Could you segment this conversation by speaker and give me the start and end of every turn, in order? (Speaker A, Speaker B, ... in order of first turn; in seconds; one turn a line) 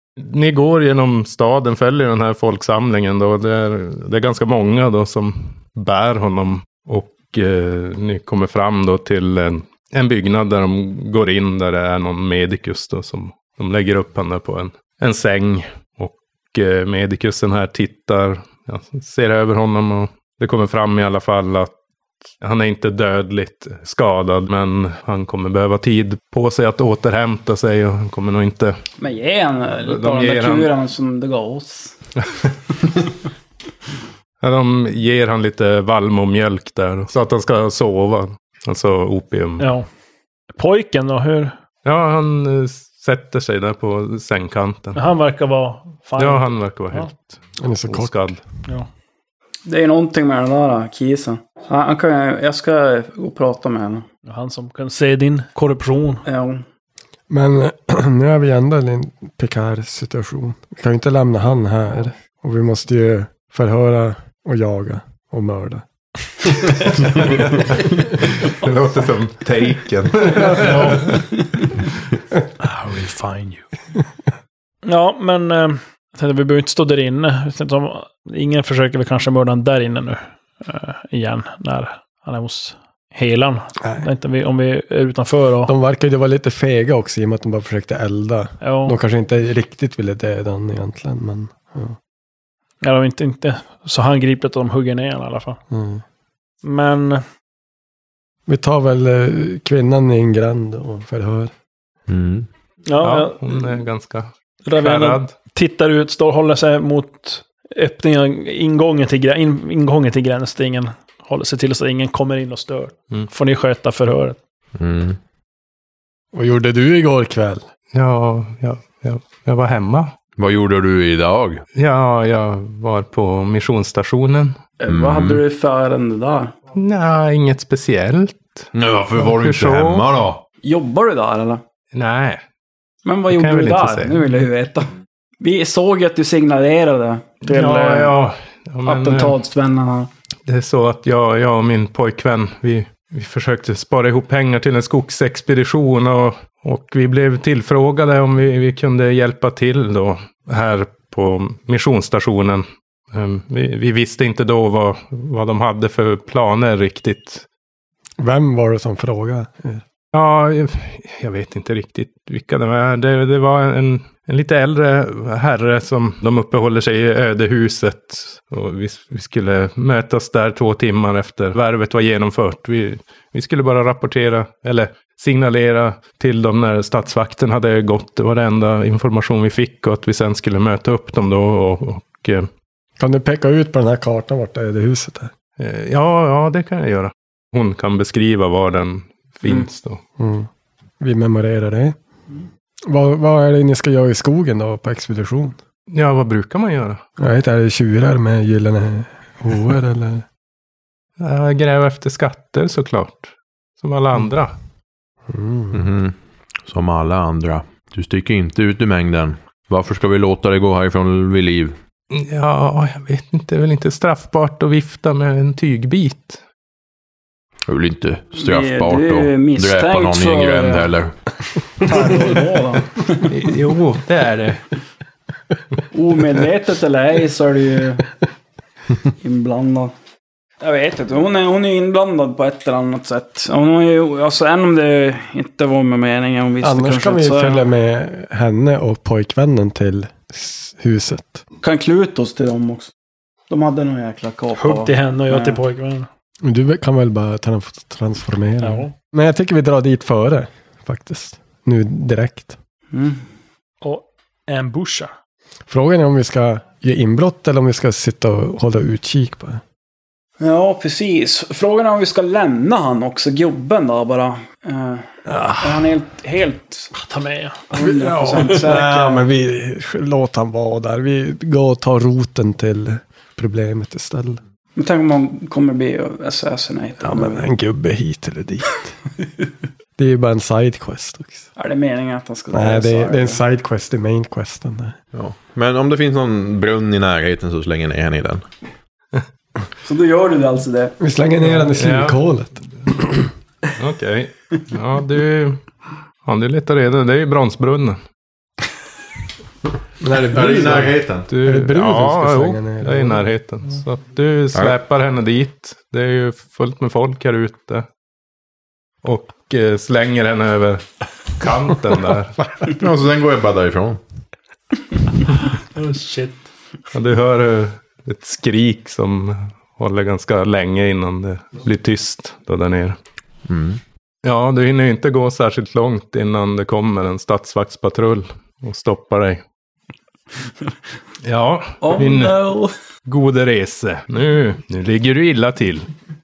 Speaker A: 0.2-21.7
Speaker A: 22.4-28.8
Speaker B: 29.0-31.9
Speaker A: 29.8-30.7
Speaker A: 34.4-39.7
Speaker C: 39.6-39.9
Speaker C: 40.5-41.5
Speaker A: 41.8-45.0
Speaker C: 44.9-47.1
Speaker A: 46.2-48.4
Speaker D: 47.6-48.3
Speaker B: 49.6-54.0
Speaker C: 54.2-56.2
Speaker B: 56.2-56.6
Speaker D: 57.3-65.8
Speaker A: 66.8-71.3
Speaker C: 70.6-71.1
Speaker C: 72.6-73.6
Speaker C: 74.8-85.7
Speaker D: 83.8-84.1
Speaker D: 85.7-92.0
Speaker C: 88.6-89.0
Speaker C: 92.8-95.6
Speaker D: 95.7-96.0
Speaker C: 96.6-97.2
Speaker D: 98.5-101.5
Speaker E: 102.1-102.5
Speaker C: 102.8-103.7
Speaker A: 103.0-105.3
Speaker C: 104.7-114.4
Speaker E: 114.8-115.2
Speaker D: 116.3-117.7
Speaker A: 117.9-120.1
Speaker E: 120.4-121.6
Speaker A: 121.8-124.6
Speaker B: 124.8-126.5
Speaker E: 124.9-125.4
Speaker A: 126.7-130.1
Speaker E: 128.7-130.4
Speaker B: 130.6-131.6
Speaker A: 131.9-132.4
Speaker B: 133.0-134.9
Speaker A: 133.3-134.2
Speaker B: 135.4-138.1
Speaker A: 137.4-139.4
Speaker B: 138.8-140.1
Speaker A: 140.5-157.4
Speaker D: 158.2-159.8
Speaker A: 160.1-182.5
Speaker D: 183.0-185.3
Speaker A: 185.6-190.0
Speaker D: 190.2-190.5
Speaker D: 191.0-192.0
Speaker D: 192.8-195.6
Speaker A: 195.9-197.0
Speaker D: 197.2-200.2
Speaker A: 201.2-204.5
Speaker D: 205.3-205.8
Speaker E: 205.7-206.1
Speaker E: 206.6-211.8
Speaker A: 212.1-216.4
Speaker E: 217.7-221.1
Speaker B: 218.3-220.9
Speaker B: 221.8-223.2
Speaker A: 223.2-224.6
Speaker B: 225.9-228.1
Speaker B: 229.2-229.9
Speaker B: 230.6-237.6
Speaker D: 236.6-241.4
Speaker B: 241.6-242.9
Speaker B: 243.5-245.6
Speaker C: 244.5-246.1
Speaker D: 246.4-252.6
Speaker C: 248.6-248.9
Speaker B: 252.9-253.2
Speaker C: 253.8-255.1
Speaker D: 255.7-259.6
Speaker B: 260.4-266.9
Speaker D: 265.3-265.6
Speaker C: 266.9-267.7
Speaker B: 267.7-269.2
Speaker D: 267.8-274.4
Speaker C: 268.2-268.7
Speaker B: 274.8-277.5
Speaker D: 277.0-278.9
Speaker D: 280.0-281.5
Speaker B: 281.6-283.4
Speaker D: 282.5-285.0
Speaker E: 285.1-288.4
Speaker B: 289.8-290.9
Speaker D: 291.0-293.3
Speaker A: 291.6-292.2
Speaker A: 293.7-295.6
Speaker A: 296.2-298.0
Speaker D: 300.0-303.3
Speaker E: 300.3-301.3
Speaker A: 301.3-307.9
Speaker A: 309.0-312.4
Speaker E: 312.6-314.0
Speaker C: 315.7-316.4
Speaker A: 316.9-322.9
Speaker E: 323.5-323.8
Speaker A: 324.2-329.4
Speaker A: 331.2-332.4
Speaker B: 331.8-332.7
Speaker A: 333.1-335.9